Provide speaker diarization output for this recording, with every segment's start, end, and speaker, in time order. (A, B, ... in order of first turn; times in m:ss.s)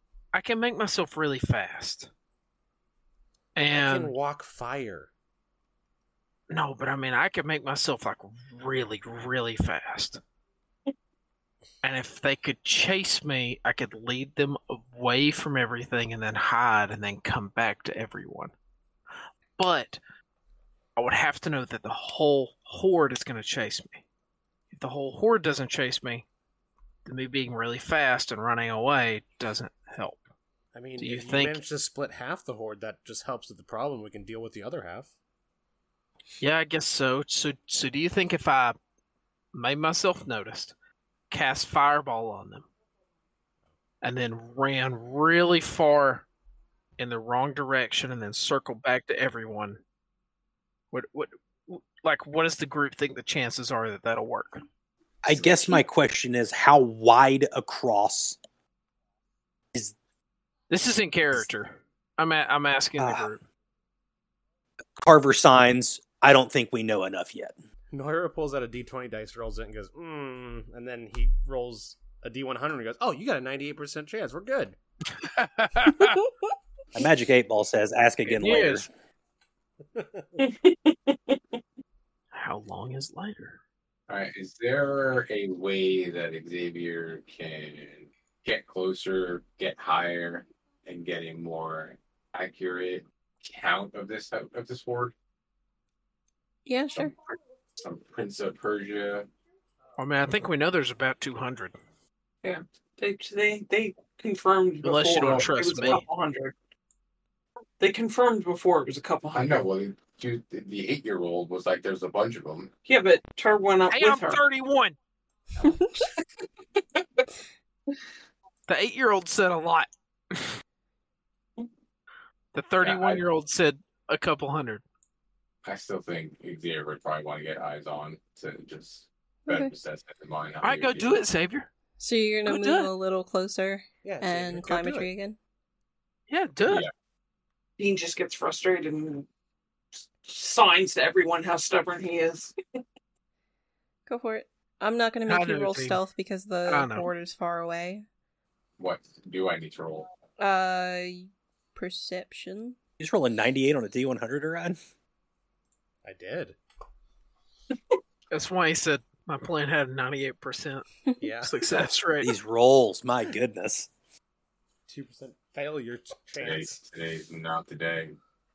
0:00.3-0:02.1 A
0:03.6-0:04.1 A
0:03.7-0:05.1 B
0:06.5-0:10.2 A
0:11.8-0:18.5 A
0:19.6-0:20.0 A
0:21.0-0:24.0 A
0:24.7-0:26.2 A
0:27.1-0:30.2 A
0:30.7-0:35.1 B
0:31.0-0:31.6 A
0:36.4-0:38.8 A
0:39.5-0:40.7 A
0:41.3-0:42.7 A
0:44.0-0:46.3 A
0:47.0-0:49.8 A
0:50.9-0:54.6 A
0:55.2-0:58.4 C
1:00.7-1:03.4 A
1:03.0-1:03.3 C
1:05.0-1:07.6 C
1:07.9-1:14.8 B
1:15.2-1:16.2 A
1:17.0-1:18.9 C
1:18.3-1:18.9 A
1:20.0-1:20.3 B
1:20.4-1:21.4 D
1:22.3-1:23.6 A
1:24.1-1:35.1 E
1:36.7-1:37.1 F
1:37.8-1:39.3 E
1:40.0-1:41.8 A
1:42.4-1:46.5 D
1:44.8-1:46.0 A
1:47.8-1:49.6 D
1:49.3-1:52.7 E
1:52.9-1:54.4 D
1:53.9-1:55.0 A
1:58.7-2:00.6 A
2:02.5-2:04.8 A
2:02.8-2:03.2 E
2:05.6-2:11.2 E
2:09.4-2:09.7 F
2:10.6-2:11.7 A
2:12.0-2:15.4 F
2:12.4-2:12.9 A
2:14.0-2:15.1 B
2:16.3-2:16.8 A
2:17.8-2:19.3 D
2:20.2-2:22.5 D
2:24.1-2:28.0 F
2:25.3-2:26.0 A
2:26.7-2:27.1 A
2:28.8-2:30.1 E
2:30.4-2:32.8 F
2:33.0-2:34.8 C
2:36.0-2:36.6 B
2:38.3-2:40.9 A
2:41.2-2:41.6 B
2:41.4-2:42.3 A
2:42.2-2:43.9 C
2:44.9-2:46.8 B
2:46.4-2:48.2 E